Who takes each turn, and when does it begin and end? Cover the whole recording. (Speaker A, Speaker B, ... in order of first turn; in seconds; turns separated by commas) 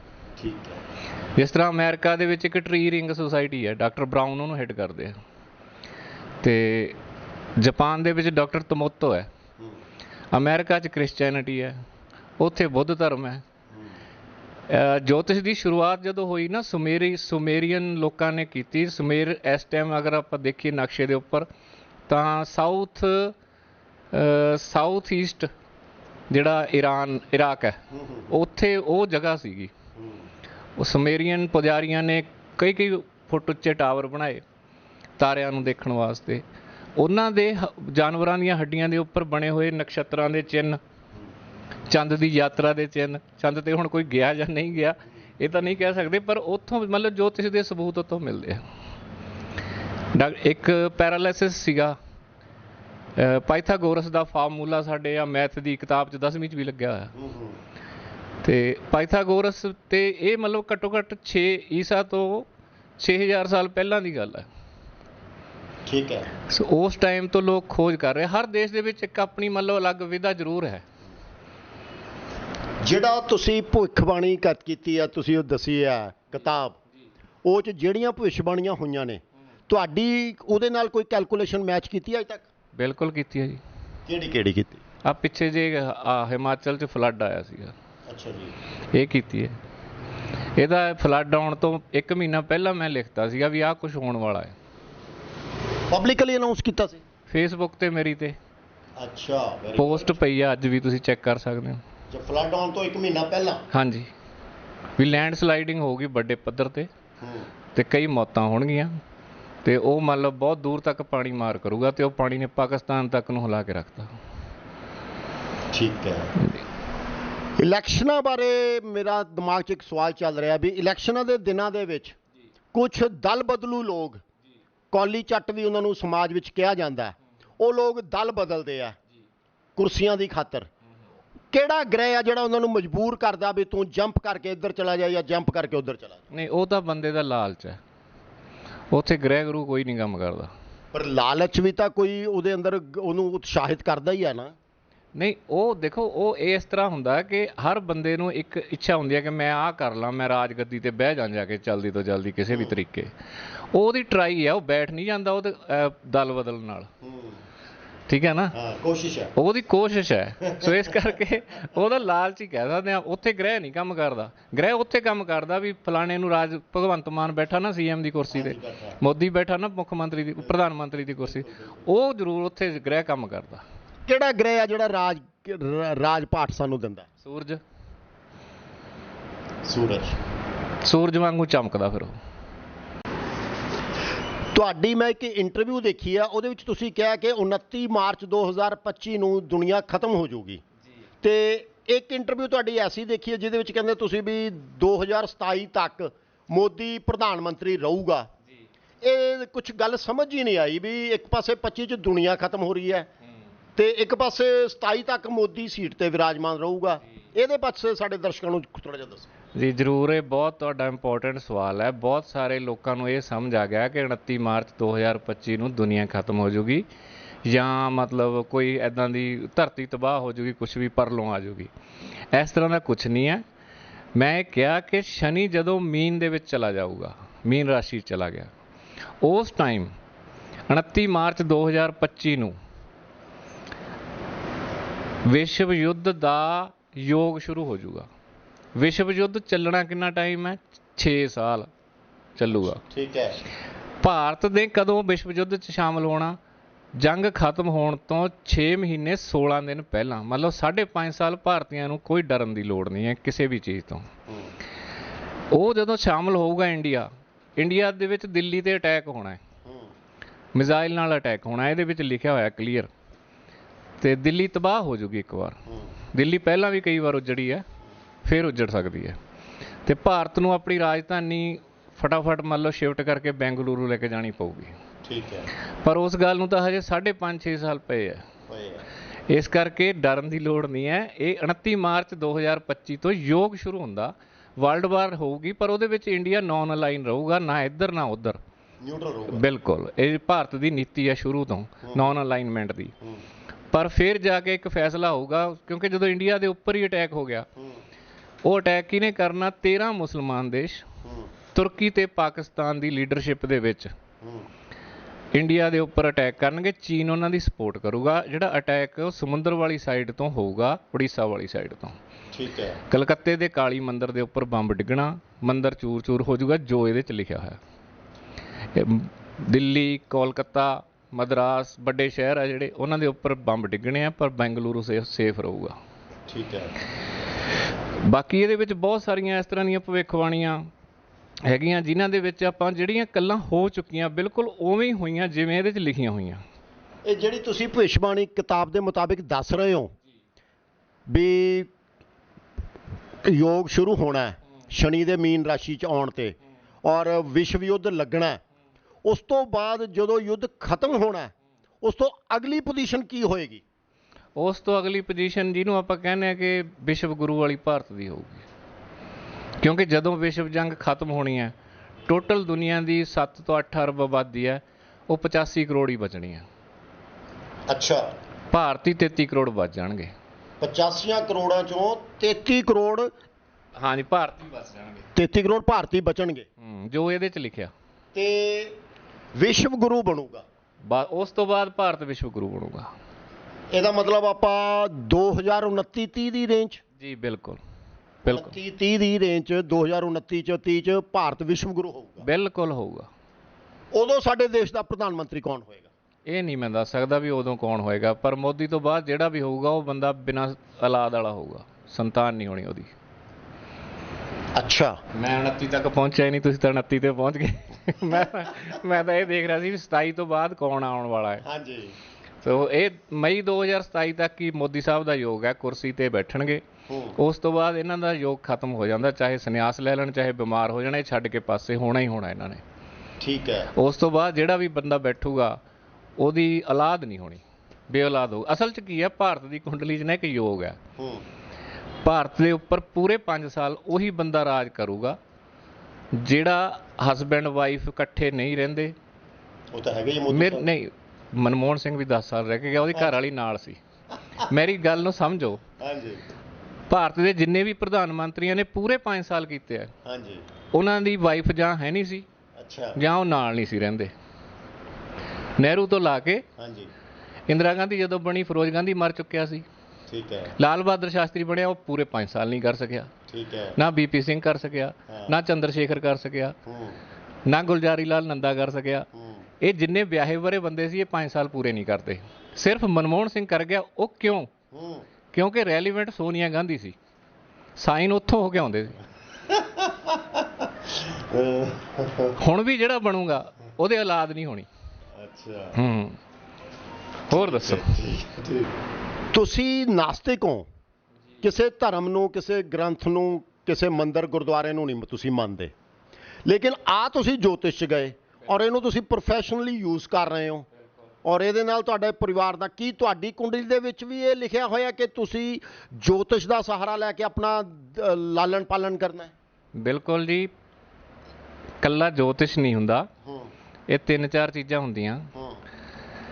Speaker A: 0.4-0.8, Speaker B: 1.4-5.2, Speaker B: 6.4-7.0, Speaker B: 7.6-9.3, Speaker B: 10.3-11.8, Speaker B: 12.4-13.4, Speaker A: 13.7-14.0, Speaker B: 14.7-21.5, Speaker B: 22.1-23.4, Speaker B: 24.1-25.5, Speaker B: 26.3-29.7, Speaker A: 27.9-28.4, Speaker A: 29.9-30.3, Speaker B: 30.8-34.4, Speaker B: 35.2-36.4, Speaker B: 37.0-40.8, Speaker B: 41.9-48.6, Speaker B: 50.1-52.0, Speaker B: 53.1-57.1, Speaker A: 57.1-57.6, Speaker B: 58.4-64.5, Speaker A: 65.9-66.3, Speaker B: 66.5-70.8, Speaker A: 72.8-76.8, Speaker A: 77.4-82.5, Speaker B: 82.8-83.6, Speaker A: 84.1-84.8, Speaker B: 85.0-87.7, Speaker A: 88.1-88.6, Speaker B: 88.9-89.6, Speaker B: 90.6-94.5, Speaker A: 95.9-97.0, Speaker B: 97.3-98.4, Speaker A: 99.0-100.2, Speaker B: 99.8-101.8, Speaker A: 102.1-103.7, Speaker B: 103.7-104.1, Speaker B: 105.0-106.9, Speaker A: 107.2-107.5, Speaker B: 107.8-109.0, Speaker B: 109.6-114.1, Speaker A: 115.7-116.3, Speaker B: 116.4-116.6, Speaker A: 117.6-122.1, Speaker A: 122.7-124.2, Speaker A: 124.9-129.0, Speaker A: 129.8-130.7, Speaker A: 131.5-136.2, Speaker B: 136.3-137.8, Speaker B: 138.9-140.5, Speaker A: 140.9-144.6, Speaker B: 145.1-153.1, Speaker B: 153.7-156.9, Speaker A: 157.0-157.4, Speaker B: 158.1-158.6, Speaker A: 158.5-159.3, Speaker B: 159.4-173.6, Speaker A: 160.5-160.9, Speaker A: 168.3-169.0, Speaker A: 171.2-171.9, Speaker A: 174.1-177.1, Speaker B: 177.2-177.6, Speaker A: 179.6-180.2, Speaker B: 180.8-182.1, Speaker A: 184.5-190.6, Speaker A: 191.2-198.3, Speaker A: 199.0-203.1, Speaker A: 203.8-209.3, Speaker B: 209.5-216.9, Speaker B: 217.4-221.7, Speaker B: 222.3-223.4, Speaker B: 224.1-228.5, Speaker B: 229.2-229.9, Speaker B: 230.7-232.6, Speaker B: 235.2-238.1, Speaker B: 238.8-241.7, Speaker B: 242.4-242.8, Speaker A: 242.5-243.4, Speaker B: 244.0-246.4, Speaker B: 246.9-254.1, Speaker A: 254.3-254.5, Speaker B: 255.5-259.4, Speaker A: 259.6-259.9, Speaker B: 260.5-262.9, Speaker B: 264.0-267.6, Speaker A: 265.7-265.9, Speaker B: 268.2-269.2, Speaker B: 269.9-274.8, Speaker A: 275.0-275.5, Speaker B: 275.8-278.2, Speaker A: 278.5-278.9, Speaker B: 279.3-288.4, Speaker A: 288.8-289.4, Speaker B: 289.3-292.9, Speaker B: 293.7-297.5, Speaker A: 297.6-297.8, Speaker B: 298.4-300.9, Speaker A: 301.0-301.3, Speaker B: 301.5-303.9, Speaker A: 304.2-304.5, Speaker B: 305.3-312.0, Speaker A: 312.3-312.8, Speaker B: 312.9-317.6, Speaker B: 318.7-325.8, Speaker A: 326.3-326.8, Speaker B: 328.0-330.7, Speaker B: 331.4-336.4, Speaker A: 337.1-339.9, Speaker A: 341.1-341.7, Speaker A: 343.2-348.4, Speaker A: 349.0-353.6, Speaker B: 354.4-358.4, Speaker B: 359.6-361.5, Speaker B: 362.1-366.5, Speaker A: 367.7-368.1, Speaker B: 368.5-370.1, Speaker A: 370.6-373.1, Speaker B: 373.8-375.1, Speaker A: 375.1-376.5, Speaker B: 376.6-377.7, Speaker A: 378.1-378.8, Speaker A: 379.4-380.4, Speaker B: 380.8-382.9, Speaker A: 383.7-386.8, Speaker B: 387.0-387.6, Speaker B: 388.2-388.5, Speaker A: 388.3-392.2, Speaker B: 392.2-393.1, Speaker A: 393.9-395.9, Speaker B: 396.3-402.9, Speaker A: 404.6-405.0, Speaker B: 405.1-411.4, Speaker A: 411.4-412.0, Speaker B: 412.4-416.6, Speaker A: 416.9-417.2, Speaker B: 417.1-422.6, Speaker A: 423.2-423.7, Speaker B: 423.7-425.6, Speaker B: 426.2-430.8, Speaker A: 431.0-431.3, Speaker B: 432.0-435.2, Speaker B: 436.1-439.0, Speaker A: 439.7-440.7, Speaker B: 440.3-443.8, Speaker B: 444.4-445.6, Speaker A: 445.8-446.2, Speaker B: 446.9-449.9, Speaker A: 450.0-450.5, Speaker B: 450.7-452.3, Speaker A: 452.6-453.0, Speaker B: 453.0-454.1, Speaker B: 455.6-456.4, Speaker A: 456.6-456.9, Speaker B: 457.5-459.6, Speaker A: 460.1-460.6, Speaker B: 460.6-463.1, Speaker A: 463.3-463.8, Speaker B: 463.8-466.6, Speaker A: 465.1-465.4, Speaker A: 466.6-467.0, Speaker B: 467.5-469.1, Speaker A: 469.1-469.5, Speaker B: 469.6-474.5, Speaker A: 474.7-475.1, Speaker B: 475.3-477.0, Speaker B: 477.8-479.0, Speaker A: 479.5-482.4, Speaker B: 482.4-484.7, Speaker A: 485.1-485.8, Speaker B: 485.8-486.2, Speaker B: 487.3-488.1, Speaker A: 487.3-488.7, Speaker A: 489.3-490.7, Speaker A: 491.4-495.8, Speaker A: 496.5-500.7, Speaker A: 501.2-509.3, Speaker B: 509.8-510.5, Speaker B: 511.8-513.1, Speaker A: 513.2-513.5, Speaker B: 513.9-515.3, Speaker A: 515.4-515.6